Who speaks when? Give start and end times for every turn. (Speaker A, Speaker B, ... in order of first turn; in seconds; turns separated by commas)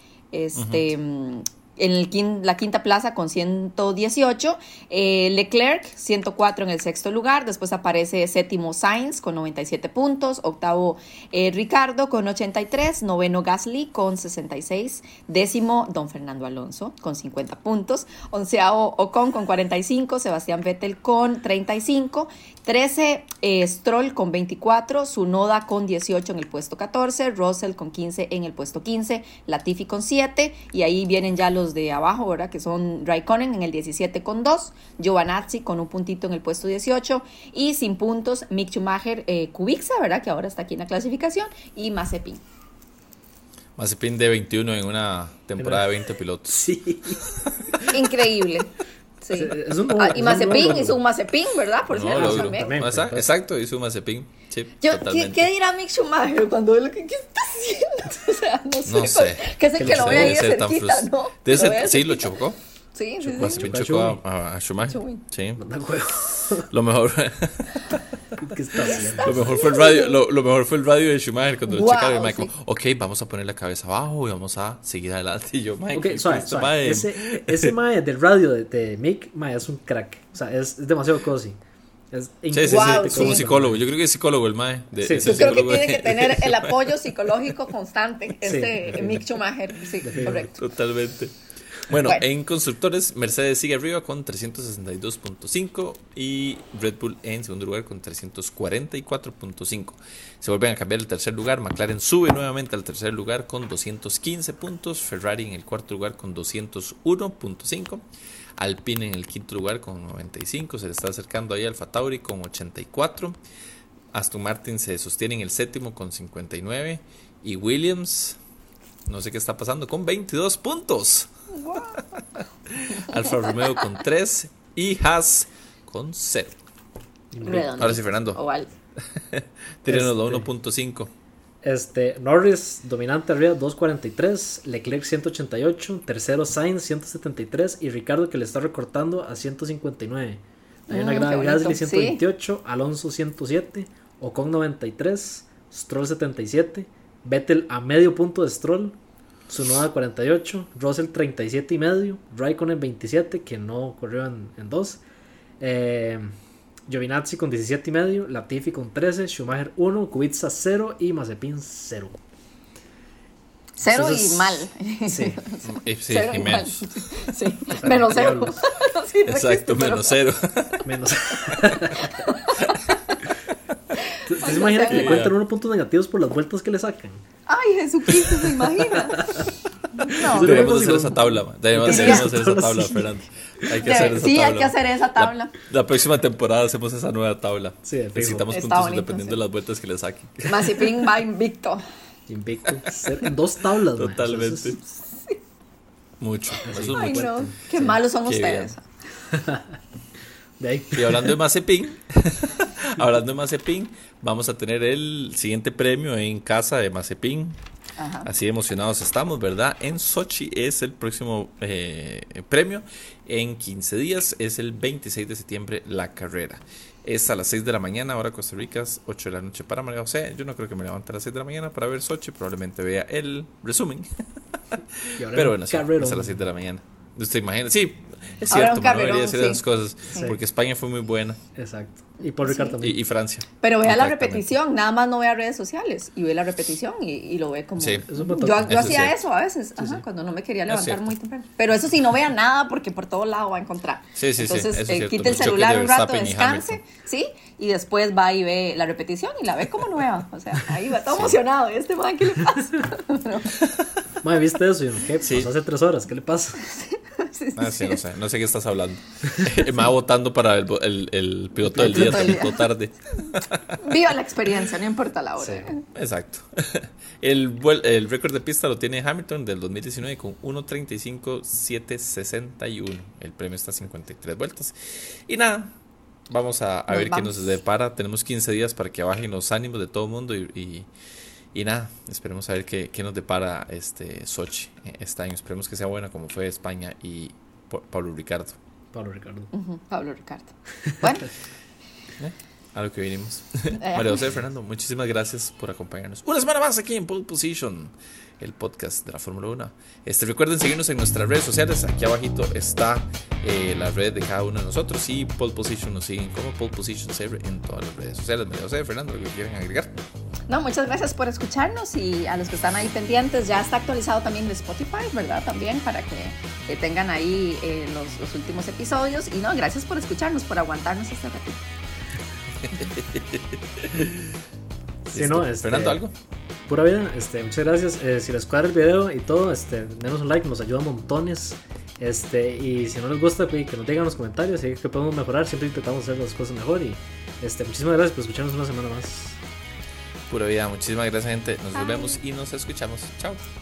Speaker A: 0.3-42.4, Speaker B: 0.6-0.9, Speaker B: 43.8-47.8, Speaker C: 45.6-45.9, Speaker C: 46.5-47.9, Speaker A: 47.8-52.7, Speaker C: 49.3-51.0, Speaker B: 51.9-55.4, Speaker C: 52.1-53.3, Speaker A: 54.8-62.3, Speaker B: 58.9-62.6, Speaker C: 59.8-60.5, Speaker A: 62.9-63.7, Speaker C: 63.2-64.2, Speaker B: 63.4-65.6, Speaker A: 64.9-65.2, Speaker C: 65.6-66.7, Speaker B: 66.5-68.0, Speaker C: 68.3-69.3, Speaker A: 68.8-70.2, Speaker B: 68.8-77.7, Speaker A: 71.7-72.5, Speaker C: 75.9-81.6, Speaker C: 82.1-83.8, Speaker B: 82.5-86.9, Speaker A: 82.7-83.5, Speaker C: 85.0-85.5, Speaker A: 85.2-90.6, Speaker C: 88.4-89.4, Speaker C: 90.0-90.5, Speaker B: 90.1-108.0, Speaker A: 92.0-92.2, Speaker B: 108.6-113.4, Speaker B: 114.1-118.4, Speaker B: 119.0-121.3, Speaker A: 121.6-122.0, Speaker B: 121.9-122.2, Speaker B: 122.7-126.6, Speaker A: 123.1-123.8, Speaker C: 127.3-127.7, Speaker A: 127.4-128.7, Speaker B: 127.6-128.4, Speaker B: 129.0-131.1, Speaker C: 129.9-130.5, Speaker C: 131.6-149.0, Speaker A: 140.9-142.2, Speaker C: 149.5-155.0, Speaker C: 155.6-156.3, Speaker C: 156.9-162.2, Speaker A: 163.8-170.2, Speaker C: 163.8-165.4, Speaker B: 165.6-166.8, Speaker C: 167.7-168.6, Speaker B: 169.3-171.9, Speaker C: 170.8-172.1, Speaker A: 171.9-173.2, Speaker A: 173.9-175.3, Speaker C: 174.2-177.2, Speaker B: 174.9-175.3, Speaker A: 177.5-179.3, Speaker B: 178.3-178.5, Speaker C: 179.2-179.5, Speaker A: 179.9-180.7, Speaker C: 180.1-183.1, Speaker B: 180.2-191.0, Speaker A: 181.8-182.3, Speaker C: 183.8-184.1, Speaker A: 183.8-185.5, Speaker C: 187.8-188.5, Speaker A: 188.5-189.4, Speaker A: 190.4-191.8, Speaker C: 192.3-194.7, Speaker A: 192.9-193.3, Speaker B: 194.0-194.8, Speaker B: 196.2-198.7, Speaker A: 196.5-198.8, Speaker C: 196.7-197.5, Speaker C: 199.3-199.7, Speaker C: 200.6-201.4, Speaker B: 200.9-207.6, Speaker A: 208.0-208.3, Speaker B: 208.2-224.1, Speaker B: 224.7-231.4, Speaker C: 225.2-226.4, Speaker A: 228.5-230.3, Speaker C: 231.6-233.0, Speaker A: 232.4-232.8, Speaker B: 232.8-234.5, Speaker A: 233.6-253.6, Speaker B: 237.8-238.0, Speaker C: 238.1-239.1, Speaker B: 238.7-239.1, Speaker C: 239.8-240.0, Speaker B: 240.7-241.1, Speaker B: 244.2-246.8, Speaker C: 254.2-256.6, Speaker B: 255.2-255.5, Speaker A: 256.6-258.0, Speaker B: 257.6-263.9, Speaker C: 261.7-262.4, Speaker A: 261.8-262.6, Speaker A: 263.8-265.8, Speaker C: 265.4-265.7, Speaker B: 265.9-275.7, Speaker B: 276.3-280.9, Speaker A: 276.9-277.5, Speaker B: 281.5-288.6, Speaker C: 288.9-289.5, Speaker A: 289.5-291.3, Speaker B: 292.2-309.9, Speaker A: 293.8-294.2, Speaker A: 310.5-321.6, Speaker B: 322.6-324.4, Speaker B: 325.1-326.1, Speaker C: 325.1-326.0, Speaker C: 326.7-339.4, Speaker B: 340.3-343.4, Speaker A: 341.8-342.2